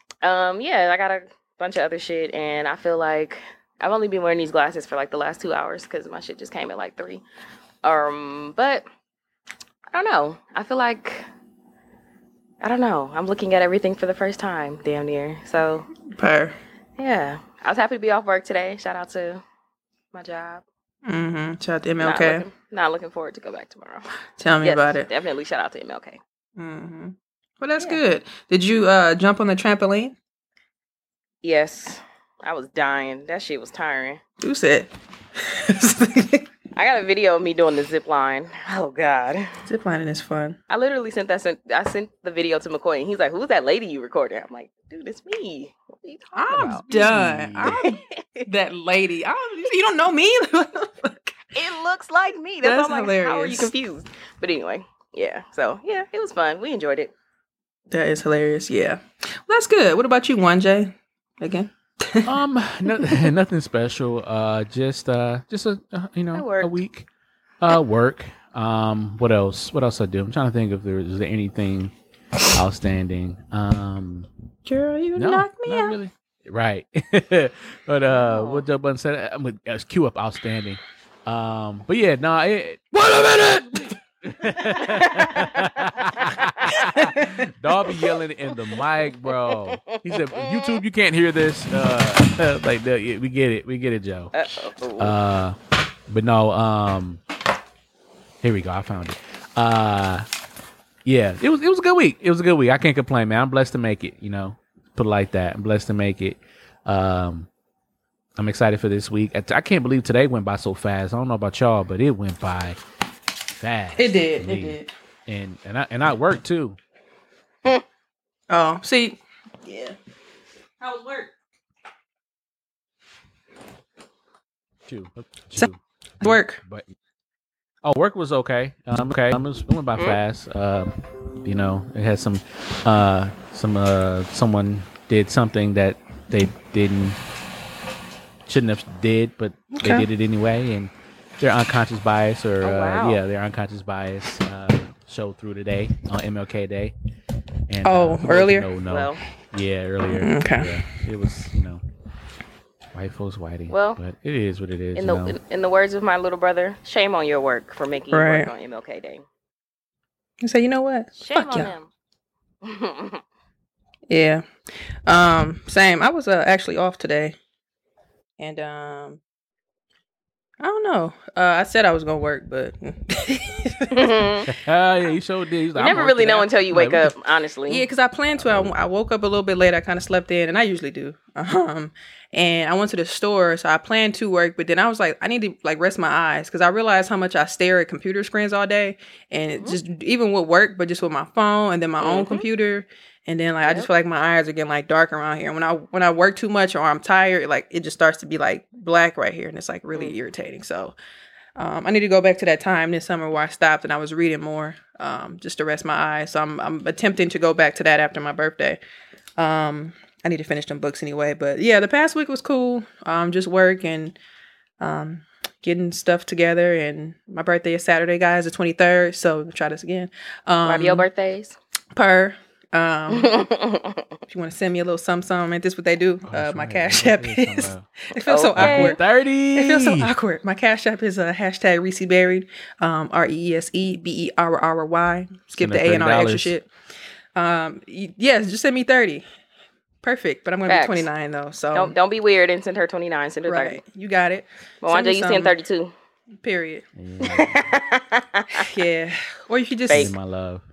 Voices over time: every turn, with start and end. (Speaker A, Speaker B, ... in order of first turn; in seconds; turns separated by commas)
Speaker A: 0.2-7.2, Speaker A: 7.8-8.9, Speaker A: 9.9-11.3, Speaker A: 12.6-15.9, Speaker B: 16.1-16.6, Speaker A: 17.0-19.4, Speaker A: 20.1-20.6, Speaker B: 21.1-22.5, Speaker A: 22.0-24.1, Speaker B: 24.4-25.1, Speaker A: 24.6-26.2, Speaker B: 26.6-30.1, Speaker A: 31.4-34.2, Speaker B: 34.4-34.9, Speaker B: 35.4-36.5, Speaker A: 36.8-39.5, Speaker B: 39.6-40.6, Speaker A: 40.7-48.5, Speaker B: 46.3-51.4, Speaker C: 46.5-47.8, Speaker A: 51.5-57.1, Speaker B: 52.6-53.7, Speaker B: 57.9-62.4, Speaker C: 62.3-67.1, Speaker B: 62.9-63.3, Speaker A: 66.3-66.8, Speaker C: 67.6-71.9, Speaker C: 72.5-74.3, Speaker B: 74.7-76.0, Speaker C: 75.2-94.3, Speaker A: 78.1-78.6, Speaker B: 83.0-83.9, Speaker B: 84.8-85.5, Speaker B: 86.7-87.5, Speaker A: 89.7-90.4, Speaker A: 94.3-95.2, Speaker C: 95.0-97.2, Speaker C: 98.4-100.3, Speaker C: 101.0-107.5, Speaker C: 108.4-112.8, Speaker C: 113.6-116.8, Speaker B: 114.0-114.9, Speaker B: 118.5-120.0, Speaker B: 120.8-121.3, Speaker C: 124.9-126.9, Speaker B: 126.2-126.6, Speaker C: 127.8-137.2, Speaker C: 138.5-146.9, Speaker B: 139.7-140.1, Speaker A: 142.6-143.2, Speaker C: 147.7-151.8, Speaker B: 147.8-148.7, Speaker A: 148.9-149.2, Speaker B: 150.0-150.9, Speaker C: 152.9-155.4, Speaker A: 153.7-154.0, Speaker A: 155.0-159.2, Speaker B: 158.1-158.5, Speaker B: 160.4-161.7, Speaker A: 161.2-161.9, Speaker A: 162.6-163.2, Speaker B: 164.1-164.5, Speaker B: 165.1-167.4, Speaker B: 168.4-169.2, Speaker B: 170.6-174.3, Speaker A: 173.9-174.5, Speaker C: 174.5-177.1, Speaker A: 175.8-177.8, Speaker B: 177.7-201.0, Speaker C: 178.3-178.8, Speaker A: 192.0-192.5, Speaker B: 201.6-208.8, Speaker B: 209.4-214.2, Speaker B: 214.8-221.1, Speaker A: 220.6-221.6, Speaker B: 221.9-223.5, Speaker A: 223.1-224.0, Speaker B: 224.3-236.7, Speaker C: 226.3-227.9, Speaker A: 228.3-229.0, Speaker C: 228.6-230.1, Speaker C: 235.6-236.5, Speaker B: 237.3-239.3, Speaker B: 240.0-241.9, Speaker A: 240.7-241.1, Speaker A: 241.7-243.8, Speaker B: 243.5-245.6, Speaker A: 244.8-245.9, Speaker B: 246.4-246.9, Speaker C: 247.0-247.7, Speaker A: 247.2-248.7, Speaker B: 248.5-250.2, Speaker A: 249.9-250.1, Speaker C: 249.9-250.6